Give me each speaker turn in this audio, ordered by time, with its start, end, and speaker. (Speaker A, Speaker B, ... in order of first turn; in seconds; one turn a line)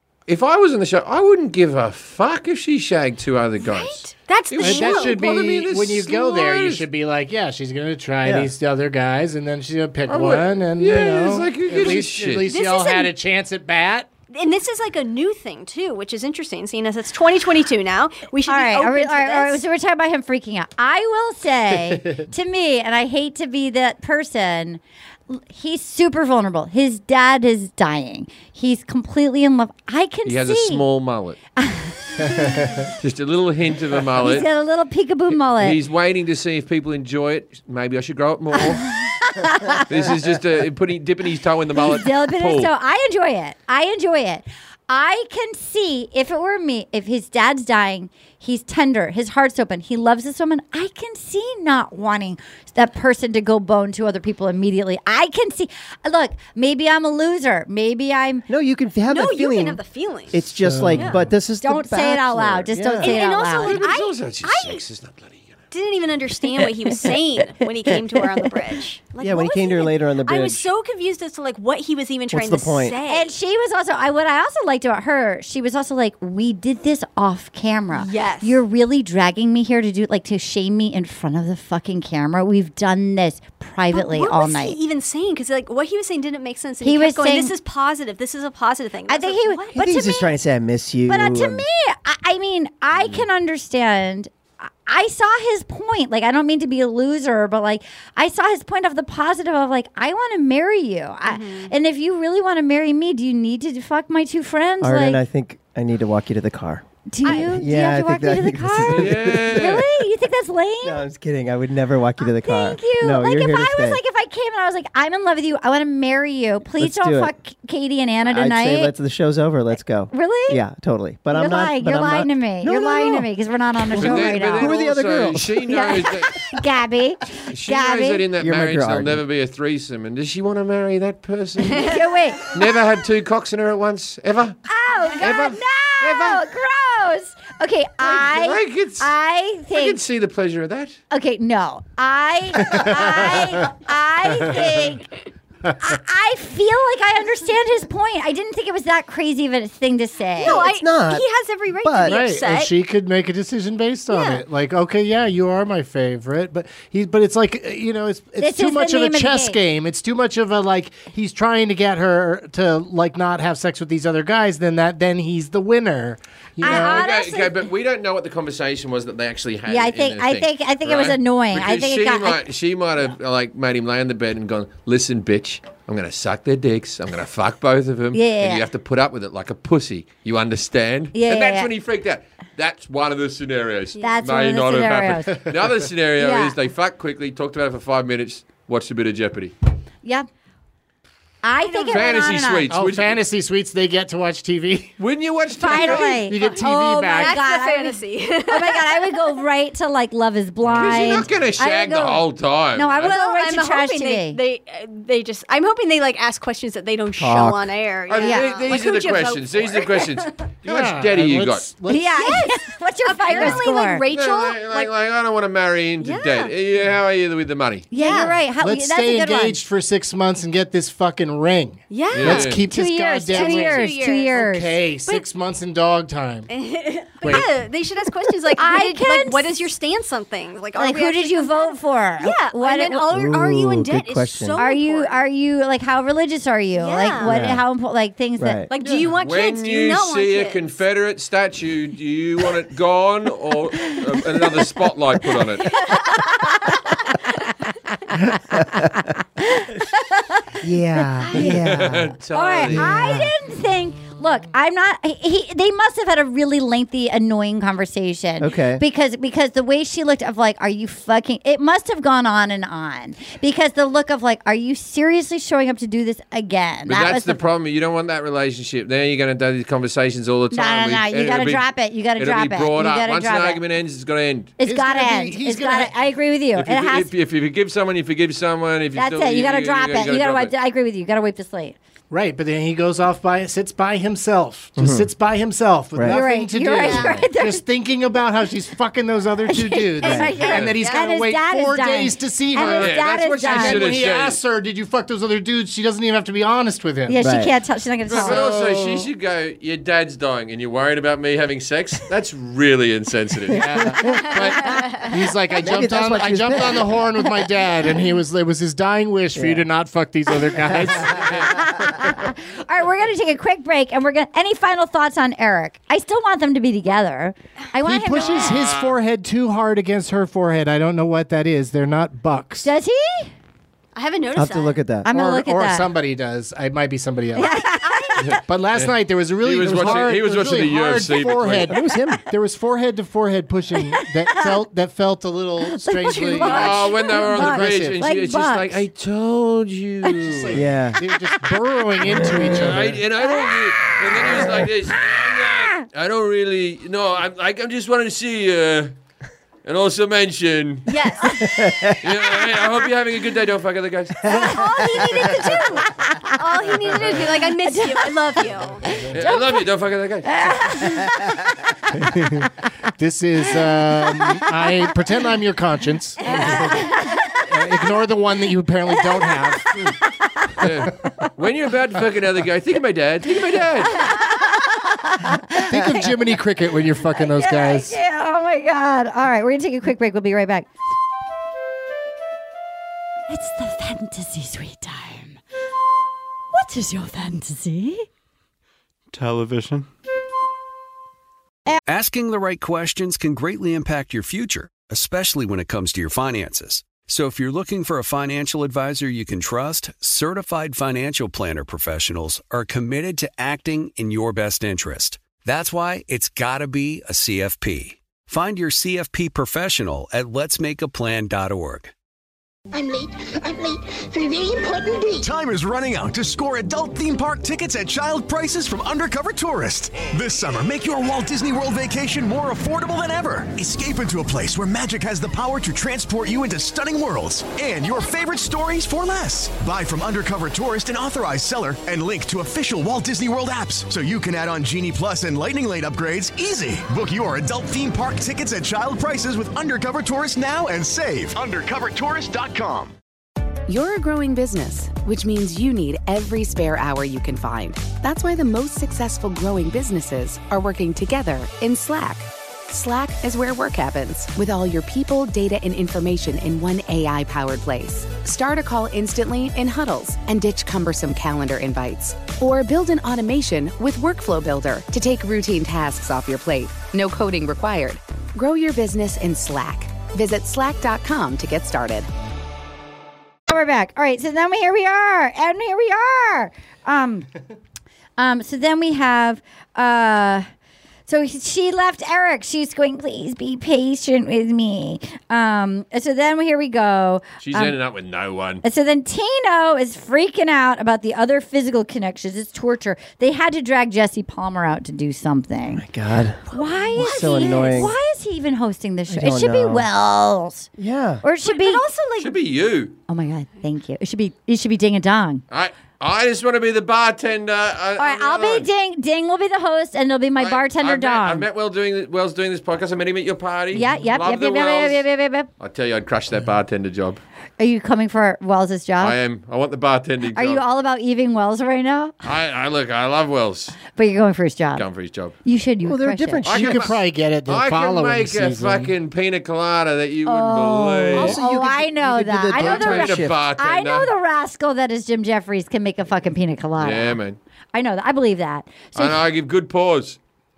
Speaker A: 0.3-6.8
Speaker B: 3.6-5.3
Speaker C: 4.6-14.1
Speaker D: 8.2-8.5
Speaker A: 10.1-12.5
Speaker B: 12.4-13.1
Speaker B: 14.3-19.6
Speaker E: 18.4-30.8
Speaker A: 30.2-31.4
Speaker E: 31.6-32.5
Speaker C: 32.4-32.9
Speaker A: 33.0-34.5
Speaker E: 34.2-35.8
Speaker A: 35.5-38.9
Speaker E: 38.8-39.9
Speaker A: 39.9-42.7
Speaker E: 41.8-58.4
Speaker D: 58.5-63.2
Speaker B: 59.1-60.4
Speaker C: 60.5-61.3
Speaker B: 60.9-61.2
Speaker E: 61.6-63.8
Speaker B: 63.0-64.8
Speaker A: 63.6-65.6
Speaker B: 65.7-73.3
Speaker D: 69.2-70.7
Speaker D: 72.3-73.0
Speaker E: 73.0-84.8
Speaker B: 77.9-78.6
Speaker B: 83.9-90.1
Speaker E: 86.8-87.5
Speaker E: 89.1-90.3
Speaker D: 89.7-91.6
Speaker E: 91.1-105.2
Speaker B: 101.2-101.7
Speaker D: 104.8-109.8
Speaker E: 107.1-111.0
Speaker B: 107.2-107.5
Speaker A: 108.9-109.8
Speaker D: 110.8-114.0
Speaker E: 112.2-118.9
Speaker D: 116.8-117.3
Speaker D: 118.2-123.3
Speaker E: 120.1-120.6
Speaker E: 121.3-124.7
Speaker D: 123.9-125.8
Speaker A: 124.0-126.5
Speaker E: 125.7-128.2
Speaker A: 127.5-134.6
Speaker D: 128.4-129.2
Speaker E: 131.8-132.4
Speaker E: 134.7-140.0
Speaker A: 135.2-136.4
Speaker A: 138.0-139.1
Speaker A: 139.7-141.0
Speaker E: 141.1-145.1
Speaker C: 142.7-143.7
Speaker C: 144.4-144.8
Speaker E: 145.8-150.7
Speaker B: 150.3-152.7
Speaker D: 150.5-151.2
Speaker D: 151.8-152.2
Speaker C: 152.0-167.0
Speaker B: 154.1-154.4
Speaker E: 158.4-159.6
Speaker E: 166.6-167.6
Speaker A: 166.6-189.5
Speaker E: 169.7-172.4
Speaker E: 178.1-178.7
Speaker E: 181.1-181.7
Speaker E: 184.0-185.4
Speaker E: 186.2-186.6
Speaker E: 191.4-192.7
Speaker B: 191.6-192.1
Speaker A: 191.9-193.2
Speaker C: 192.7-194.9
Speaker A: 195.0-196.2
Speaker E: 195.6-204.4
Speaker C: 195.7-197.4
Speaker B: 197.1-199.4
Speaker A: 200.7-203.1
Speaker B: 203.0-210.3
Speaker D: 207.2-207.7
Speaker A: 208.1-211.7
Speaker E: 208.2-208.6
Speaker C: 210.6-212.3
Speaker E: 211.9-214.0
Speaker B: 212.1-214.9
Speaker C: 213.3-213.6
Speaker A: 214.1-217.9
Speaker B: 216.0-216.5
Speaker E: 217.9-219.6
Speaker B: 217.9-218.5
Speaker C: 218.6-226.5
Speaker B: 221.9-222.6
Speaker A: 222.1-222.6
Speaker E: 222.7-224.8
Speaker B: 223.3-224.5
Speaker B: 226.5-235.2
Speaker C: 227.2-227.5
Speaker E: 228.5-229.6
Speaker E: 230.8-233.2
Speaker D: 233.1-234.6
Speaker E: 234.6-238.7
Speaker B: 236.7-237.3
Speaker D: 237.2-237.6
Speaker D: 238.4-238.7
Speaker B: 238.7-240.6
Speaker A: 238.8-245.7
Speaker B: 245.6-246.9
Speaker E: 245.9-246.8
Speaker E: 248.1-250.5
Speaker D: 248.3-249.0
Speaker D: 250.6-253.3
Speaker A: 251.3-252.9
Speaker E: 252.3-267.5
Speaker D: 258.4-258.8
Speaker A: 266.9-274.5
Speaker E: 270.5-273.6
Speaker E: 274.6-277.1
Speaker C: 274.6-275.9
Speaker A: 276.6-280.5
Speaker E: 278.9-281.8
Speaker C: 282.1-297.2
Speaker D: 284.8-285.1
Speaker D: 285.9-286.2
Speaker E: 286.0-287.6
Speaker B: 286.9-287.1
Speaker E: 289.5-293.9
Speaker D: 290.0-290.3
Speaker B: 290.1-291.1
Speaker A: 292.6-294.4
Speaker E: 297.1-298.5
Speaker D: 297.2-297.5
Speaker A: 298.1-303.7
Speaker C: 298.1-299.1
Speaker C: 303.5-311.6
Speaker D: 303.7-304.5
Speaker D: 305.6-307.1
Speaker D: 309.3-309.6
Speaker D: 310.6-311.2
Speaker A: 311.0-311.7
Speaker E: 311.5-318.6
Speaker C: 317.8-322.7
Speaker A: 318.5-319.0
Speaker E: 322.6-323.3
Speaker B: 323.9-324.9
Speaker D: 324.3-325.1
Speaker E: 325.0-325.9
Speaker C: 325.1-327.5
Speaker E: 327.4-328.3
Speaker B: 327.6-328.1
Speaker A: 328.2-331.7
Speaker C: 328.4-338.0
Speaker D: 331.7-332.2
Speaker E: 334.0-334.4
Speaker E: 335.6-338.8
Speaker A: 336.5-340.6
Speaker C: 340.1-343.0
Speaker D: 340.5-341.0
Speaker A: 342.5-348.9
Speaker E: 343.2-344.6
Speaker E: 345.3-345.8
Speaker A: 349.6-350.9
Speaker B: 350.9-351.9
Speaker D: 351.4-352.0
Speaker A: 352.0-354.4
Speaker B: 354.2-358.8
Speaker D: 354.3-355.3
Speaker A: 356.9-357.2
Speaker E: 357.3-358.1
Speaker E: 358.9-359.6
Speaker A: 359.1-360.7
Speaker E: 360.3-361.4
Speaker C: 362.0-366.9
Speaker E: 366.2-367.4
Speaker C: 367.4-369.9
Speaker E: 369.2-370.5
Speaker A: 370.6-374.1
Speaker E: 373.8-376.1
Speaker C: 375.6-378.0
Speaker E: 377.1-380.7
Speaker E: 383.3-385.4
Speaker E: 386.5-388.1
Speaker F: 391.8-411.9
Speaker G: 412.7-415.3
Speaker H: 415.2-442.9
Speaker I: 443.7-472.1
Speaker E: 473.5-477.3
Speaker E: 478.2-480.5
Speaker E: 481.1-487.7
Speaker A: 487.4-488.6
Speaker E: 488.6-495.8
Speaker D: 495.7-497.9
Speaker E: 496.5-500.7
Speaker B: 497.1-497.9
Speaker D: 499.1-499.9
Speaker D: 500.8-501.2
Speaker E: 501.2-501.8
Speaker B: 501.4-502.4
Speaker A: 502.2-502.9
Speaker E: 503.1-505.4
Speaker A: 505.5-508.7
Speaker E: 508.0-511.4
Speaker A: 510.4-515.0
Speaker E: 513.7-515.5
Speaker A: 515.6-517.2
Speaker E: 517.6-519.2
Speaker A: 519.0-520.6
Speaker E: 520.3-522.1
Speaker A: 522.2-523.8
Speaker E: 523.9-524.8
Speaker A: 524.8-525.3
Speaker E: 525.4-526.5
Speaker D: 525.8-526.8
Speaker A: 526.4-531.4
Speaker C: 526.5-528.9
Speaker E: 530.2-537.2
Speaker D: 531.1-533.4
Speaker A: 532.5-534.1
Speaker A: 536.8-537.4
Speaker E: 537.7-539.2
Speaker A: 538.9-540.2